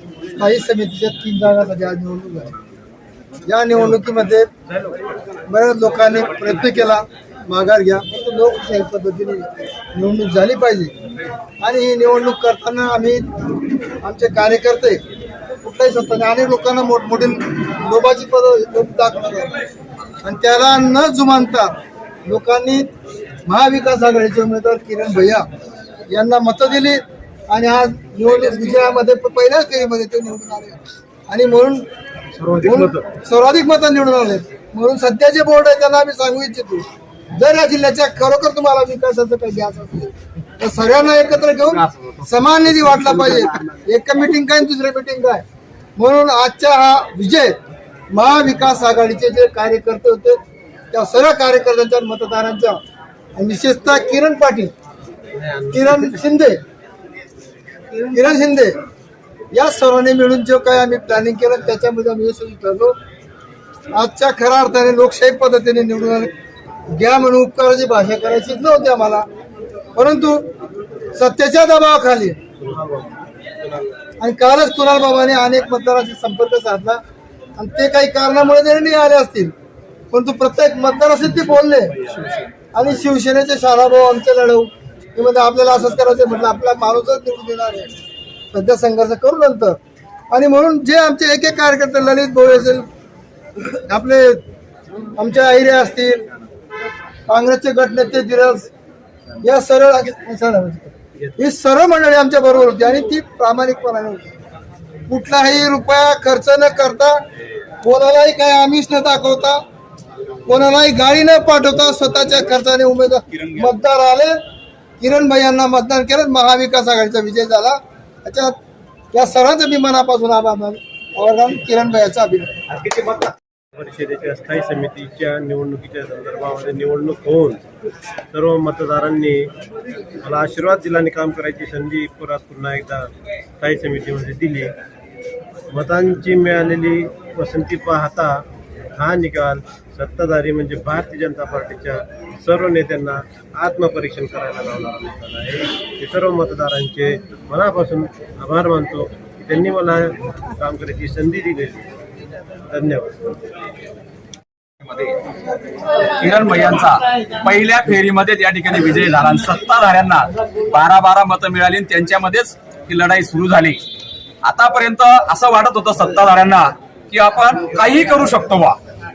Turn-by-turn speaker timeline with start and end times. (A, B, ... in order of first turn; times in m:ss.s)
0:00.4-0:02.5 A
0:03.5-0:04.5 A
0:05.5-0:10.9 A
0:11.6-0:13.3 A
0:14.0-0:15.0 A
0:15.6-0:19.6 A
0:20.2-0:21.8 A
0:22.3-0:22.9 A
0:23.5-0:25.5 A
0:26.1-0:31.9 A
0:32.4-0:32.9 B
0:32.6-0:45.4 A
0:46.0-0:47.6 A
0:48.1-0:50.4 A
0:50.9-0:52.8 A
0:53.4-0:54.7 A
0:55.3-0:55.7 B
0:55.7-0:56.6 A
0:58.0-0:58.8 A
0:59.5-1:03.0 A
1:04.0-1:06.3 A
1:06.9-1:09.2 A
1:10.0-1:10.5 A
1:11.1-1:12.4 A
1:12.6-1:13.8 B
1:14.2-1:17.0 A
1:17.6-1:19.5 A
1:20.1-1:22.0 A
1:22.7-1:28.0 A
1:28.5-1:29.8 A
1:30.3-1:32.9 A
1:33.8-1:34.4 A
1:35.2-1:36.2 A
1:37.3-1:38.7 A
1:39.4-1:44.3 A
1:45.1-1:47.2 A
1:47.8-1:49.6 A
1:50.5-1:54.4 A
1:53.3-1:53.6 C
1:55.0-1:58.5 A
1:59.1-2:02.6 A
2:02.8-2:07.6 B
2:08.3-2:09.5 B
2:10.2-2:14.8 B
2:15.7-2:18.4 B
2:19.0-2:31.9 B
2:32.7-2:33.2 B
2:34.8-2:35.2 C
2:36.2-2:43.8 C
2:44.4-2:48.8 C